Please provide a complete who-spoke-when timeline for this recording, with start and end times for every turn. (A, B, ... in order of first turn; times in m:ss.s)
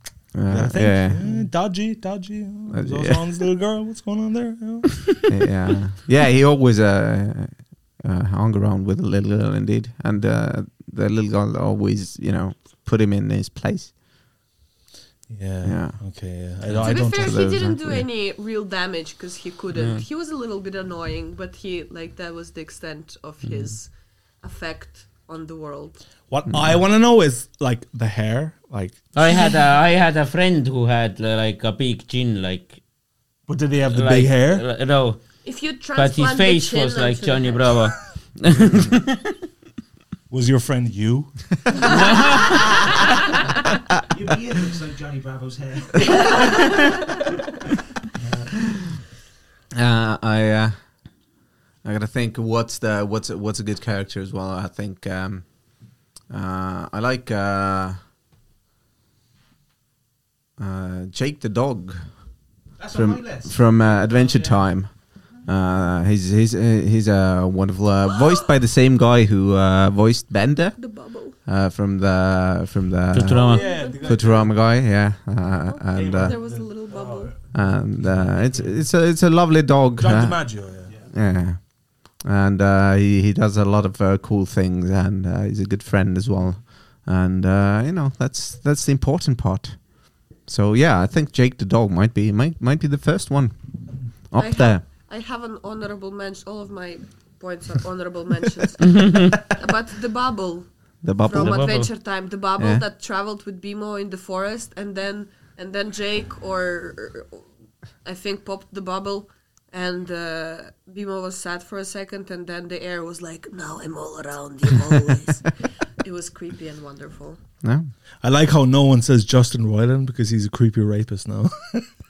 0:00.3-0:01.2 A
0:00.5-0:05.2 B
0:02.7-0:03.2 A
0:05.3-0:13.9 A
0:15.3-0:17.5 B
0:15.6-0:16.0 A
0:16.8-0:26.0 C
0:16.9-0:18.1 A
0:19.7-0:20.0 D
0:26.3-0:29.1 B
0:26.5-0:26.8 A
0:29.1-0:32.8 D
0:33.5-0:34.6 B
0:33.9-0:35.2 D
0:35.4-0:37.8 C
0:36.0-0:39.4 D
0:40.3-0:41.5 B
0:41.8-0:42.8 D
0:44.1-0:46.7 E
0:49.7-0:50.7 A
0:51.8-0:55.5 A
0:56.3-0:58.0 A
1:00.6-1:02.0 A
1:02.8-1:03.5 E
1:02.9-1:10.8 A
1:04.0-1:04.6 E
1:10.8-1:11.4 C
1:11.4-1:16.4 A
1:13.1-1:13.6 D
1:13.2-1:14.5 C
1:13.4-1:14.5 B
1:15.6-1:17.3 C
1:15.9-1:17.4 B
1:17.5-1:33.5 A
1:18.0-1:18.7 B
1:20.0-1:21.0 B
1:34.2-1:34.8 A
1:34.4-1:47.4 C
1:41.0-1:41.7 A
1:41.3-1:41.9 D
1:48.0-1:55.5 C
1:56.0-1:57.4 C
1:57.6-1:57.9 A
1:58.2-2:01.9 B